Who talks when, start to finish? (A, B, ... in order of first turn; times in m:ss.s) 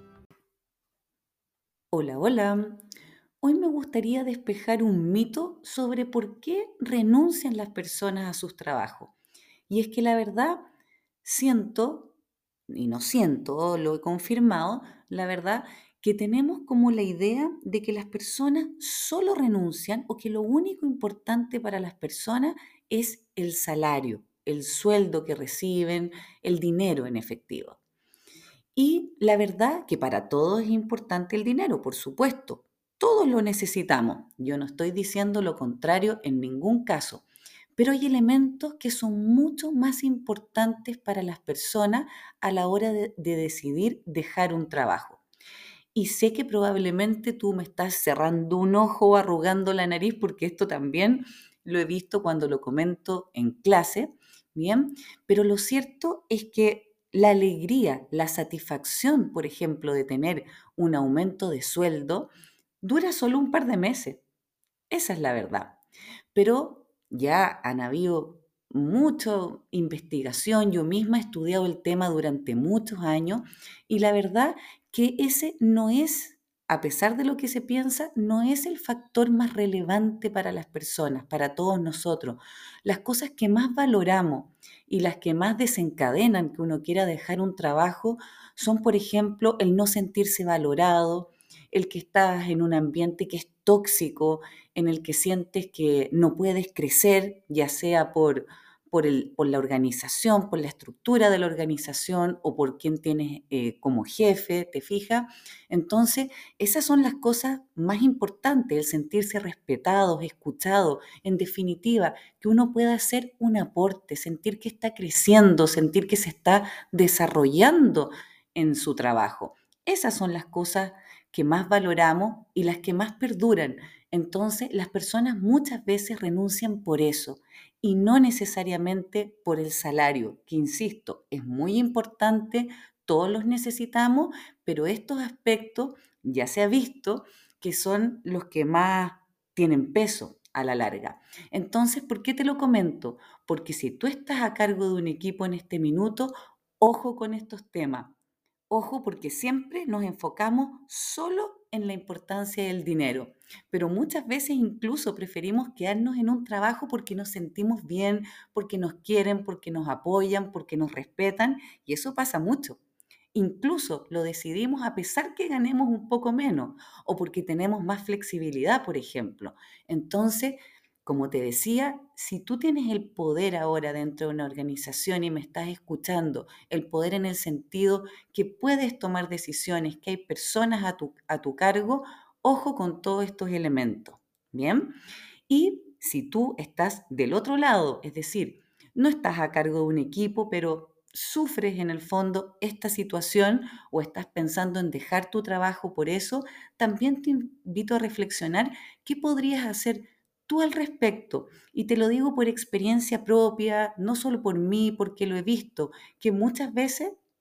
0:01.9-0:02.8 A
0:03.4-0:09.2 A
0:09.7-0:10.7 A
0:11.2-0:12.2 A
0:12.7-0:27.8 A
0:28.8-0:37.2 A
0:37.8-0:45.2 A
0:46.0-1:02.3 A
1:02.8-1:04.2 A
1:04.9-1:05.8 A
1:06.3-2:28.1 A
2:28.7-2:42.8 A
2:43.3-3:05.0 A
3:05.5-3:27.2 A